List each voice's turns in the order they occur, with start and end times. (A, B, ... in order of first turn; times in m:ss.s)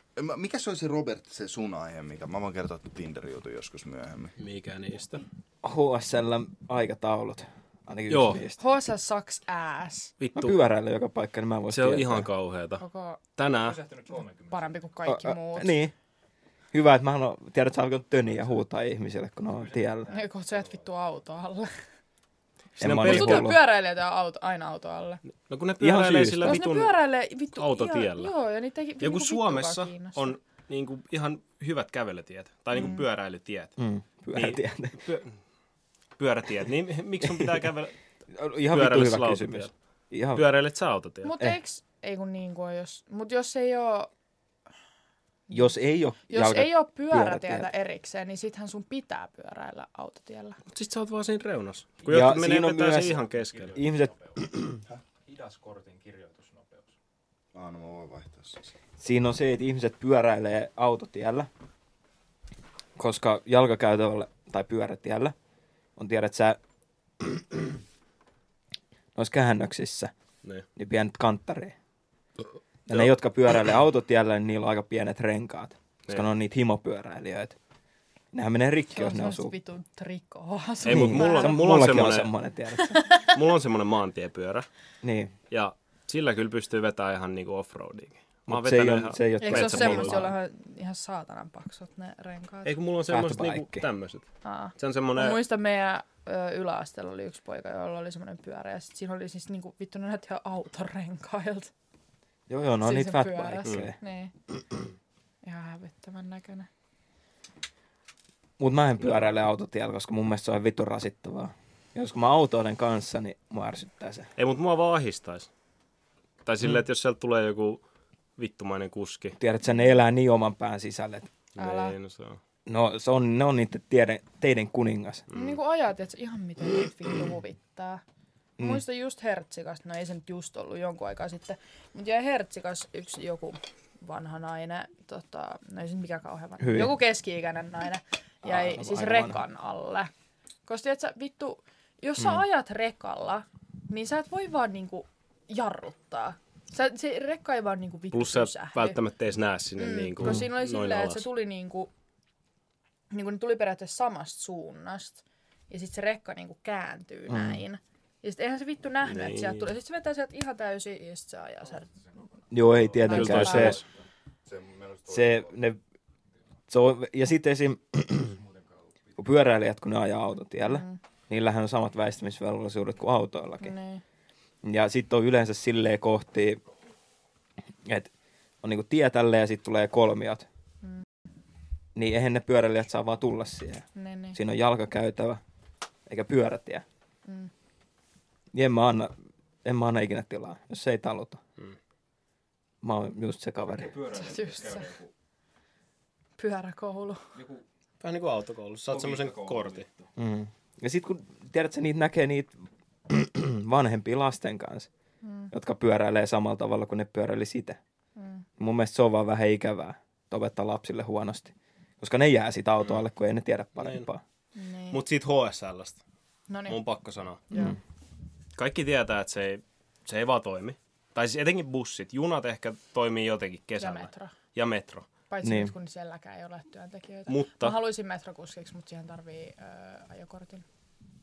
0:00.2-0:04.3 A
0:04.4-0:05.2 B
0:05.6-0:08.6 C
0:08.1-0:08.4 B
0:08.6-0:10.1 D
0:10.2-0:10.6 B
0:10.4-0:12.3 C
0:11.7-0:12.8 B
0:12.8-0:13.2 D
0:13.4-0:13.8 B
0:13.5-0:14.9 E
0:14.5-0:15.8 D
0:15.0-0:15.9 C
0:16.7-0:20.1 C
0:19.5-0:20.8 E
0:20.1-0:21.7 D
0:22.8-0:23.5 B
0:22.8-0:23.6 C
0:22.9-0:25.2 D
0:25.5-0:27.0 B
0:25.8-0:26.6 C
0:26.4-0:30.3 D
0:27.5-0:28.3 B
0:29.0-0:33.8 B
0:32.8-0:33.0 D
0:33.8-0:35.0 C
0:34.3-0:35.3 B
0:36.2-0:37.9 B
0:38.3-0:40.4 C
0:38.7-0:39.7 B
0:40.3-0:41.4 B
0:41.2-0:44.1 D
0:45.5-0:47.7 C
0:46.3-0:50.6 D
0:50.7-0:53.8 B
0:52.0-0:53.2 C
0:53.3-0:54.6 E
0:53.7-0:54.8 C
0:55.2-0:57.0 E
0:57.5-0:58.6 A
0:59.0-1:01.5 C
1:03.0-1:05.3 C
1:06.0-1:06.6 C
1:07.2-1:07.6 C
1:09.1-1:10.1 C
1:10.8-1:11.7 C
1:12.9-1:17.6 C
1:18.3-1:19.5 C
1:18.9-1:21.8 D
1:20.8-1:22.3 B
1:20.9-1:23.0 C
1:22.8-1:23.4 D
1:23.2-1:24.7 B
1:25.0-1:25.3 C
1:25.5-1:30.2 B
1:28.5-1:30.4 C
1:29.4-1:32.7 D
1:32.6-1:35.4 B
1:33.1-1:33.9 C
1:34.4-1:41.7 D
1:42.5-1:44.0 C
1:42.8-1:44.3 D
1:45.4-1:46.7 D
1:48.6-1:54.3 C
1:54.4-1:55.5 B
1:56.4-1:57.8 B
1:58.4-1:59.4 B
1:59.4-2:01.3 C
2:01.5-2:02.4 B
2:01.6-2:02.0 D
2:02.6-2:05.2 C
2:05.3-2:05.6 B
2:05.3-2:08.0 D
2:08.6-2:08.8 C
2:08.6-2:20.1 D
2:16.6-2:17.0 C
2:18.4-2:19.4 C
2:20.6-2:29.0 D
2:28.1-2:31.3 B
2:29.8-2:31.9 D
2:33.1-2:41.9 D
2:37.3-2:37.6 C
2:39.0-2:39.7 B
2:42.5-2:43.8 C
2:43.0-2:43.8 D
2:43.0-2:43.8 B
2:44.5-2:45.4 A
2:45.1-2:45.8 C
2:46.7-2:48.4 C
2:48.2-2:48.8 E
2:49.2-2:53.7 C
2:50.6-2:51.0 D
2:53.6-2:54.0 D
2:54.6-2:56.6 C
2:57.8-2:58.1 C
2:58.6-3:00.4 C
3:01.9-3:05.4 C
3:03.9-3:04.4 D
3:06.1-3:06.8 C
3:08.5-3:11.4 C
3:12.8-3:14.0 C
3:13.6-3:15.1 E
3:14.2-3:14.8 D
3:16.4-3:17.3 D
3:17.3-3:17.6 E
3:18.0-3:19.8 B
3:18.9-3:20.1 E
3:20.2-3:22.6 C
3:23.1-3:24.9 C
3:25.2-3:25.5 D
3:25.5-3:27.8 C
3:28.2-3:28.4 D
3:28.6-3:34.2 C
3:33.8-3:34.0 B
3:34.5-3:35.0 D
3:34.9-3:36.0 B
3:36.5-3:36.8 D
3:36.7-3:37.4 B
3:37.5-3:37.8 D
3:37.5-3:37.8 C
3:38.6-3:45.0 B
3:43.8-3:44.3 D
3:45.3-3:50.6 D
3:45.4-3:45.7 C
3:47.3-3:47.8 B